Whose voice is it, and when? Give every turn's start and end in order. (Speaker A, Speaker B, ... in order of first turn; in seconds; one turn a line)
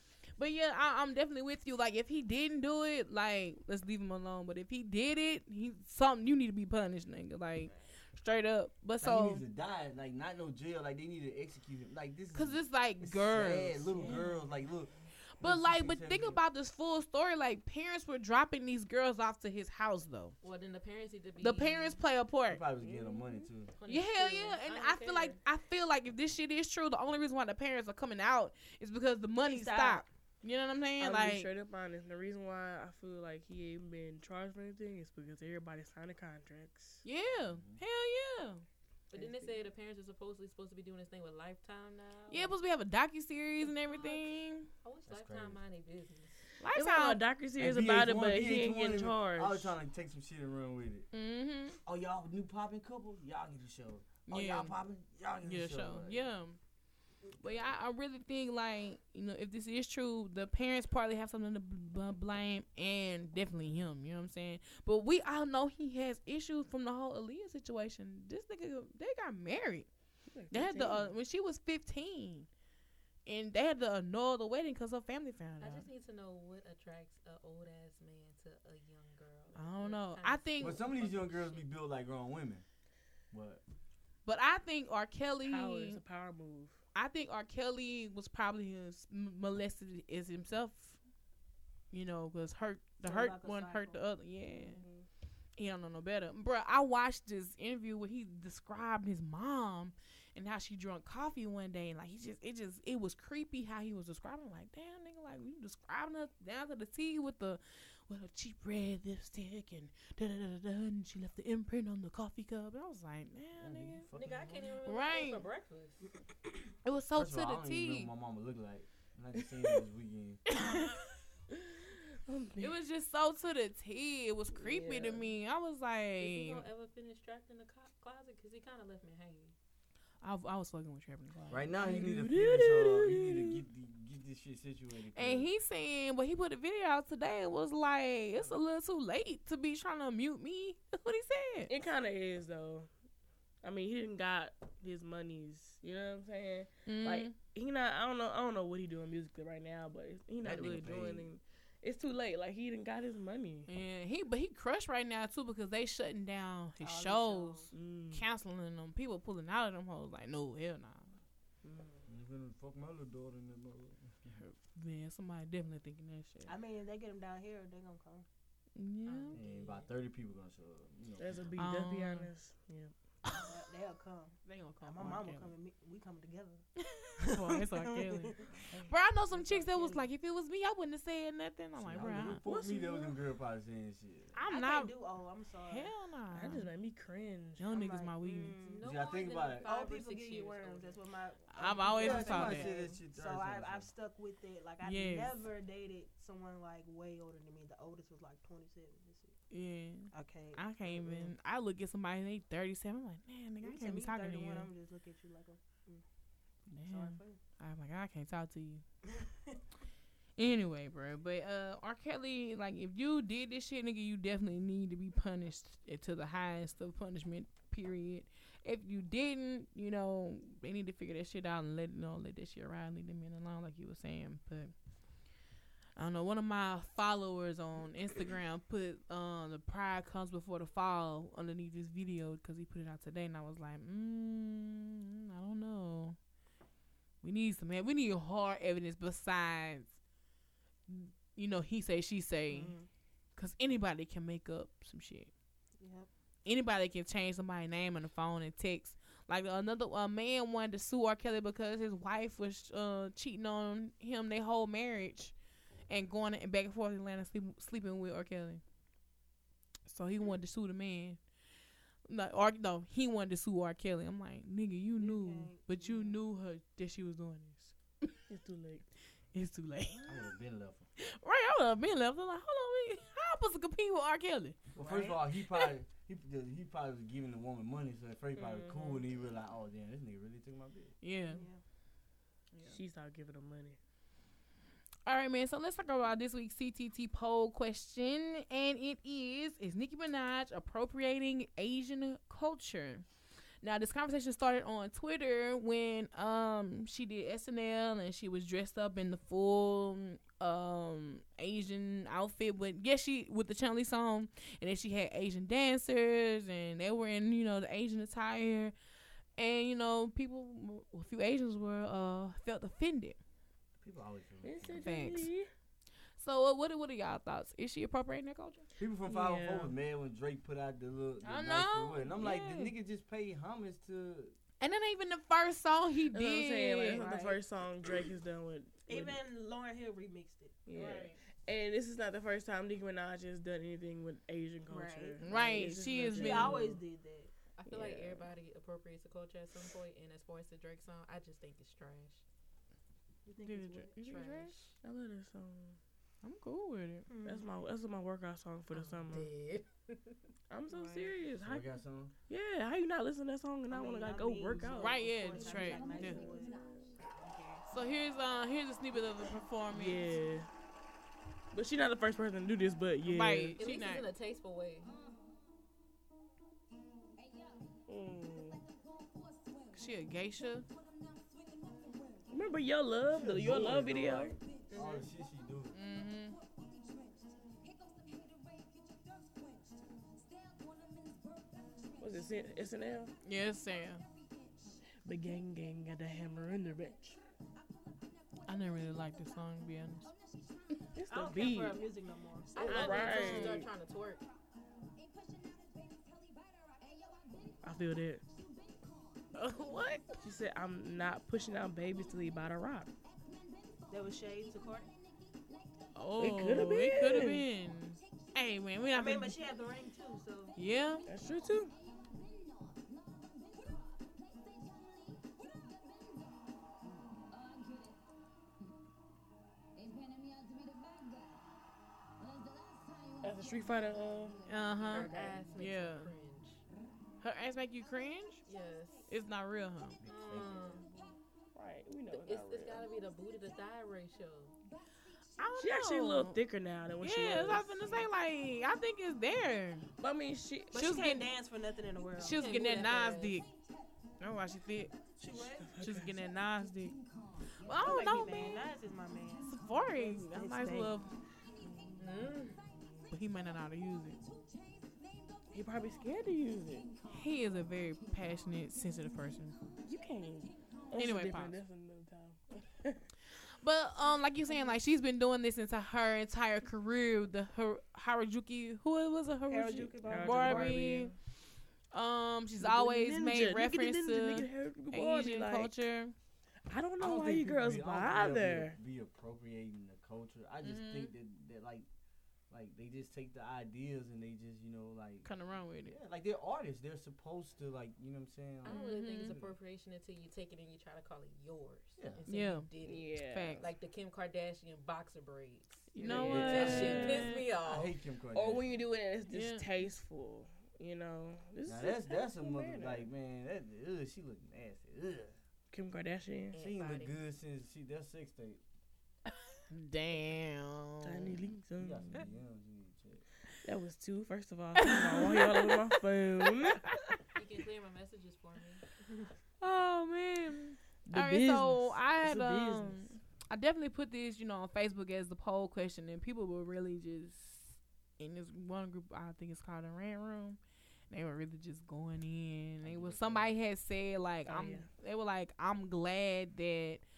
Speaker A: 0.4-9.4
Speaker B: 9.0-16.4
Speaker A: 12.3-14.1
Speaker A: 15.4-20.3
Speaker C: 20.4-22.0
Speaker A: 21.4-22.6
Speaker B: 22.5-23.7
Speaker D: 22.8-23.5
Speaker C: 23.8-25.4
Speaker A: 23.9-31.5
Speaker E: 29.4-30.0
Speaker D: 31.0-37.0
Speaker A: 37.0-38.6
Speaker B: 37.3-37.8
Speaker C: 39.1-42.5
Speaker D: 39.1-39.6
Speaker A: 42.3-44.7
Speaker C: 44.0-44.2
Speaker C: 44.8-46.4
Speaker B: 45.0-45.6
Speaker D: 46.6-49.7
Speaker A: 46.6-47.2
Speaker B: 47.6-51.1
Speaker A: 51.1-51.8
Speaker B: 51.8-56.3
Speaker A: 54.3-54.7
Speaker A: 55.4-56.6
Speaker A: 57.4-69.9
Speaker D: 70.3-71.1
Speaker A: 70.5-72.5
Speaker A: 73.2-75.9
Speaker C: 75.6-81.6
Speaker A: 79.5-80.8
Speaker B: 80.6-82.6
Speaker B: 83.3-83.6
Speaker A: 84.2-86.0
Speaker D: 85.4-86.8
Speaker A: 86.9-91.0
Speaker A: 91.9-94.8
Speaker E: 93.0-94.0
Speaker D: 94.5-95.1
Speaker A: 95.6-114.1
Speaker B: 113.6-114.6
Speaker C: 114.1-116.1
Speaker A: 114.8-115.5
Speaker A: 116.8-118.1
Speaker B: 117.2-120.4
Speaker A: 120.5-121.1
Speaker D: 122.1-122.7
Speaker A: 122.6-126.7
Speaker D: 124.5-125.3
Speaker C: 126.2-129.5
Speaker A: 130.2-131.8
Speaker B: 131.5-135.5
Speaker D: 131.8-133.6
Speaker A: 135.1-141.7
Speaker D: 141.7-142.9
Speaker D: 143.6-153.7
Speaker A: 146.8-147.3
Speaker B: 150.4-151.3
Speaker A: 153.7-161.1
Speaker E: 156.8-157.7
Speaker D: 157.7-158.2
Speaker D: 161.6-162.1
Speaker B: 162.1-164.3
Speaker A: 164.3-166.5
Speaker E: 166.4-168.2
Speaker A: 168.8-169.4
Speaker C: 169.1-169.9
Speaker B: 169.3-171.4
Speaker D: 171.2-172.9
Speaker A: 171.6-172.3
Speaker A: 173.2-173.5
Speaker E: 173.3-176.6
Speaker A: 174.4-175.5
Speaker A: 176.8-182.4
Speaker E: 177.2-178.7
Speaker E: 179.3-180.1
Speaker B: 181.8-184.4
Speaker D: 182.2-183.2
Speaker A: 184.3-184.9
Speaker E: 184.5-185.9
Speaker A: 185.6-186.7
Speaker D: 186.3-187.6
Speaker A: 187.6-188.6
Speaker E: 187.7-188.9
Speaker C: 188.6-191.0
Speaker B: 188.8-189.7
Speaker E: 189.6-199.3
Speaker A: 191.5-192.7
Speaker B: 191.9-193.9
Speaker A: 194.8-195.4
Speaker A: 199.5-204.7
Speaker E: 200.1-201.3
Speaker E: 203.6-206.0
Speaker A: 206.7-208.8
Speaker E: 206.9-207.4
Speaker A: 210.4-224.7
Speaker A: 225.9-236.2
Speaker A: 237.2-239.9
Speaker A: 240.9-242.7
Speaker E: 242.5-242.9
Speaker A: 243.3-245.3
Speaker E: 245.8-246.1
Speaker A: 246.4-255.3
Speaker A: 255.9-258.6
Speaker A: 259.9-261.2
Speaker A: 262.1-268.1
Speaker E: 265.0-266.2
Speaker D: 268.3-268.8
Speaker A: 269.3-270.1
Speaker B: 270.1-270.9
Speaker A: 271.0-274.6
Speaker E: 274.7-275.2
Speaker B: 274.8-280.9
Speaker D: 278.4-279.0
Speaker A: 281.0-281.4
Speaker E: 281.3-281.6
Speaker A: 282.5-282.8
Speaker D: 282.6-283.8
Speaker A: 285.1-293.0
Speaker A: 293.6-308.7
Speaker A: 309.4-313.2
Speaker B: 313.8-315.0
Speaker D: 314.4-315.5
Speaker A: 314.8-315.3
Speaker A: 316.2-318.7
Speaker B: 318.8-324.3
Speaker D: 319.1-319.7
Speaker A: 321.2-322.7
Speaker A: 324.6-327.3
Speaker D: 326.1-329.2
Speaker E: 327.1-327.3
Speaker E: 328.9-330.6
Speaker D: 330.6-336.8
Speaker A: 330.7-331.2
Speaker E: 334.7-335.2
Speaker A: 335.2-336.6
Speaker E: 336.1-337.3
Speaker C: 337.6-342.2
Speaker D: 337.7-338.3
Speaker E: 343.2-344.3
Speaker A: 343.4-344.7
Speaker C: 344.0-344.6
Speaker D: 344.8-345.8
Speaker A: 346.2-347.1
Speaker E: 347.1-347.5
Speaker D: 347.2-349.3
Speaker C: 349.1-349.6
Speaker D: 350.5-351.7
Speaker E: 350.7-351.1
Speaker B: 351.4-352.1
Speaker D: 352.3-355.6
Speaker E: 353.7-357.7
Speaker A: 354.8-356.3
Speaker A: 357.7-360.1
Speaker D: 359.7-360.5
Speaker D: 361.5-363.6
Speaker A: 363.0-364.1
Speaker C: 363.6-365.0
Speaker D: 367.9-368.6
Speaker A: 369.7-370.7
Speaker D: 372.3-374.4
Speaker B: 373.1-375.7
Speaker C: 374.7-375.1
Speaker A: 375.7-376.4
Speaker D: 382.0-383.1
Speaker A: 383.2-384.0
Speaker D: 385.0-387.2
Speaker A: 388.4-390.1
Speaker D: 390.9-391.9
Speaker E: 391.1-393.2
Speaker C: 392.5-394.3
Speaker D: 392.6-393.7
Speaker A: 392.7-393.6
Speaker D: 397.6-398.2
Speaker A: 399.3-400.2
Speaker D: 400.2-402.9
Speaker E: 403.9-404.9
Speaker A: 405.9-409.3
Speaker D: 406.2-407.4
Speaker E: 408.9-410.6
Speaker A: 410.6-411.1
Speaker D: 411.1-411.7
Speaker D: 423.2-425.4
Speaker A: 424.5-426.1
Speaker C: 424.8-426.6
Speaker A: 427.2-428.4
Speaker C: 428.4-429.1
Speaker A: 429.1-430.0
Speaker B: 430.0-431.2
Speaker C: 430.0-430.8
Speaker D: 431.5-432.9
Speaker C: 432.1-434.5
Speaker A: 435.4-436.4
Speaker D: 435.6-438.0
Speaker A: 437.0-439.9
Speaker D: 440.0-440.7
Speaker E: 440.7-442.8
Speaker A: 440.7-441.3
Speaker A: 442.2-443.5
Speaker C: 442.2-443.4
Speaker A: 444.2-444.9
Speaker E: 445.2-445.8
Speaker D: 445.6-446.1
Speaker A: 445.8-446.9
Speaker A: 447.6-448.7
Speaker E: 447.8-450.9
Speaker A: 449.4-451.1
Speaker D: 451.6-452.2
Speaker C: 452.0-452.6
Speaker A: 453.1-454.2
Speaker D: 455.5-456.9
Speaker A: 457.1-459.6
Speaker D: 459.8-463.0
Speaker A: 460.9-461.6
Speaker A: 463.5-471.1
Speaker E: 469.5-471.0
Speaker D: 470.0-471.1
Speaker A: 471.9-476.1
Speaker D: 472.6-475.7
Speaker D: 476.7-478.8
Speaker B: 477.0-481.9
Speaker A: 480.6-481.1
Speaker B: 482.5-485.3
Speaker A: 485.2-485.9
Speaker B: 485.8-489.6
Speaker C: 488.6-497.9
Speaker A: 488.6-489.3
Speaker B: 492.0-492.2
Speaker A: 492.3-492.7
Speaker D: 492.8-493.6
Speaker A: 493.2-493.7
Speaker A: 495.9-497.4
Speaker B: 496.1-498.7
Speaker D: 496.1-497.4
Speaker D: 498.3-503.1
Speaker A: 499.3-499.6
Speaker B: 501.6-505.4
Speaker D: 505.7-506.5
Speaker C: 506.5-507.2
Speaker B: 506.6-508.6
Speaker A: 509.7-511.4
Speaker D: 511.0-512.2
Speaker B: 511.8-513.2
Speaker D: 513.6-516.9
Speaker A: 514.8-515.7
Speaker A: 516.9-517.2
Speaker C: 517.3-518.8
Speaker A: 519.6-530.6
Speaker D: 521.0-523.1
Speaker A: 531.1-537.0
Speaker B: 532.8-533.5
Speaker D: 534.5-534.9